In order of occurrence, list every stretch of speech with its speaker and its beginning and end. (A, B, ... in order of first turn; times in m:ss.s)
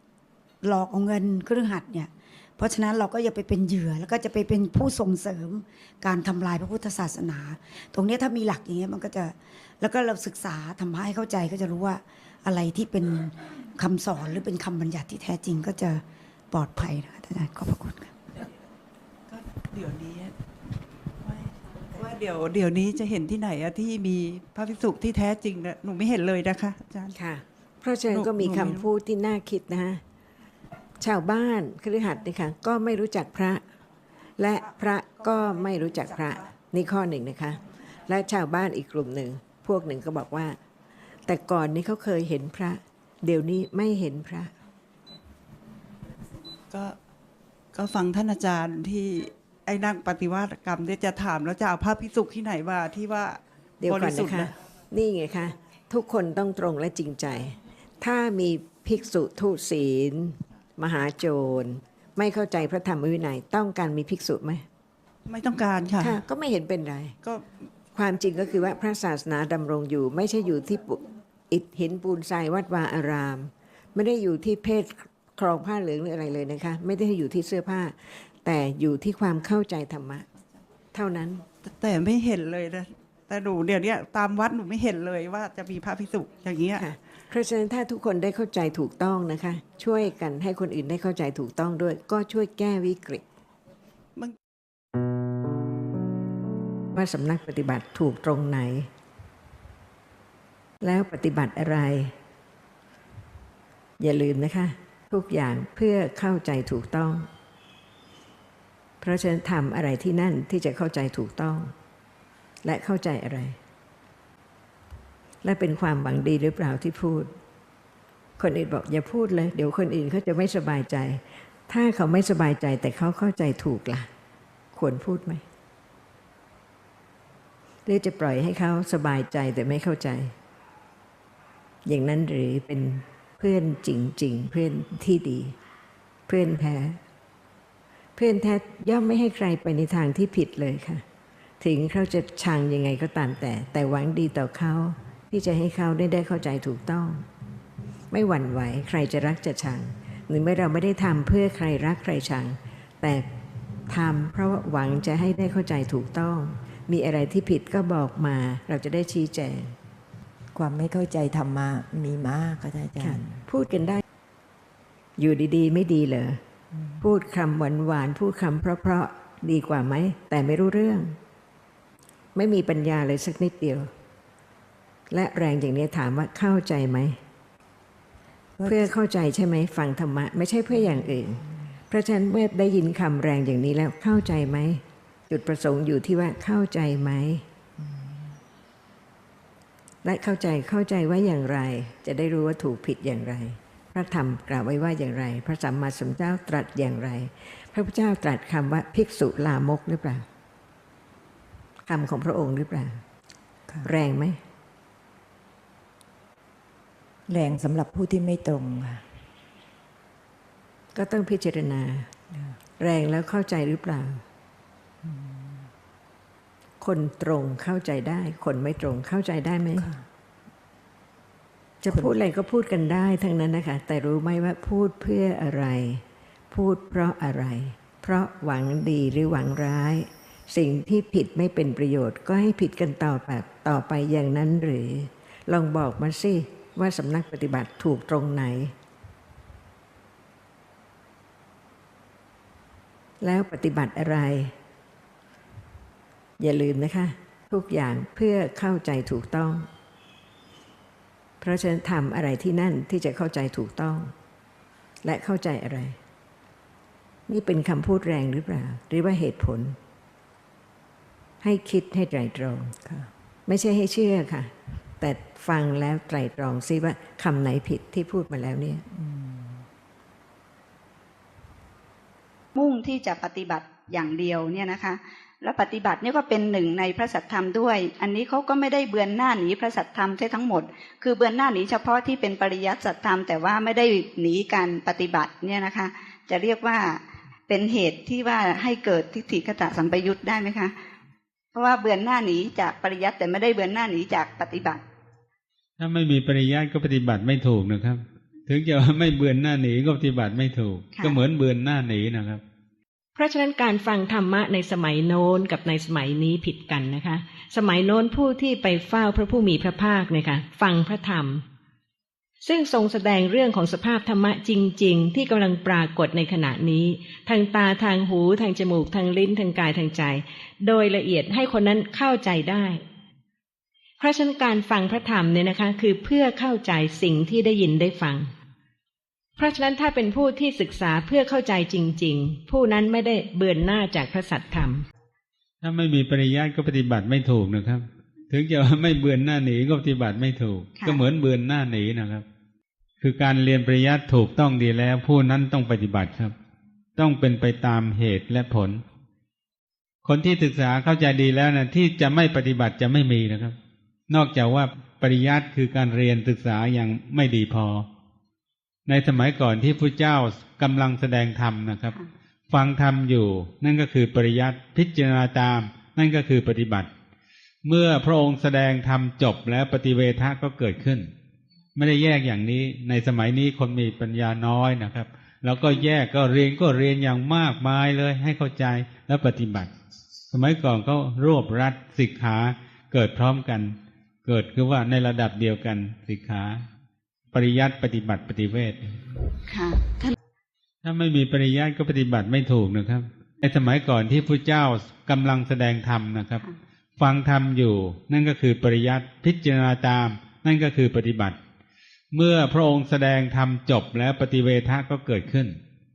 0:00.6-0:18.2 A
0:19.3-0:20.3 B
0:21.2-0:27.2 B
0:27.2-0:30.0 C
0:28.1-0:28.9 B
0:31.0-0:33.6 C
0:34.4-0:40.6 C
0:41.3-0:44.5 C
0:46.7-0:47.0 B
0:47.7-0:54.6 B
0:53.8-1:04.6 C
1:05.3-1:06.2 B
1:06.0-1:07.2 C
1:07.9-1:20.3 C
1:20.9-1:21.4 C
1:21.6-1:26.9 B
1:26.8-1:33.2 C
1:36.9-1:38.9 C
1:40.8-1:42.1 C
1:44.0-1:47.3 C
1:49.0-1:51.7 C
1:52.6-1:53.6 C
1:55.4-1:57.3 C
1:58.4-2:04.1 C
2:04.7-2:05.4 C
2:07.9-2:10.3 C
2:11.9-2:15.6 C
2:16.3-2:17.0 C
2:18.2-2:21.0 C
2:21.6-2:27.3 C
2:28.1-2:33.3 C
2:33.9-2:39.8 C
2:40.5-2:43.4 D
2:43.0-2:44.0 C
2:45.2-2:46.4 C
2:46.7-2:47.1 D
2:47.0-2:51.2 C
2:52.4-2:53.9 C
2:55.1-2:57.2 C
2:58.6-2:58.9 D
2:58.6-3:07.4 C
3:00.7-3:01.5 D
3:07.8-3:08.3 D
3:10.0-3:20.3 C
3:21.9-3:23.0 C
3:23.8-3:24.4 C
3:27.3-3:29.0 D
3:31.0-3:32.1 C
3:32.3-3:32.6 D
3:32.8-3:34.2 C
3:35.0-3:35.7 D
3:36.8-3:39.9 C
3:39.8-3:40.0 D
3:41.8-3:58.7 C
3:41.9-3:42.2 D
4:03.2-4:04.5 C
4:06.4-4:09.7 C
4:11.4-4:14.1 C
4:15.0-4:16.0 C
4:17.3-4:19.8 C
4:21.4-4:22.7 C
4:22.8-4:23.1 D
4:23.5-4:28.8 C
4:28.9-4:29.7 D
4:32.6-4:50.7 E
4:51.5-4:54.8 E
4:55.8-5:02.4 F
5:00.9-5:01.2 E
5:03.2-5:11.4 G
5:12.4-5:22.8 G
5:24.0-5:28.3 G
5:29.4-5:34.8 G
5:35.6-5:42.2 F
5:40.8-5:41.0 E
5:43.0-5:46.3 F
5:47.0-5:48.8 F
5:50.0-5:53.6 F
5:54.1-5:57.9 F
5:58.9-6:02.0 F
6:02.5-6:06.9 F
6:07.6-6:11.1 F
6:11.8-6:19.7 F
6:20.3-6:26.6 F
6:27.3-6:28.9 F
6:29.5-6:30.2 E
6:30.8-6:36.4 F
6:37.0-6:41.4 F
6:42.1-6:45.6 F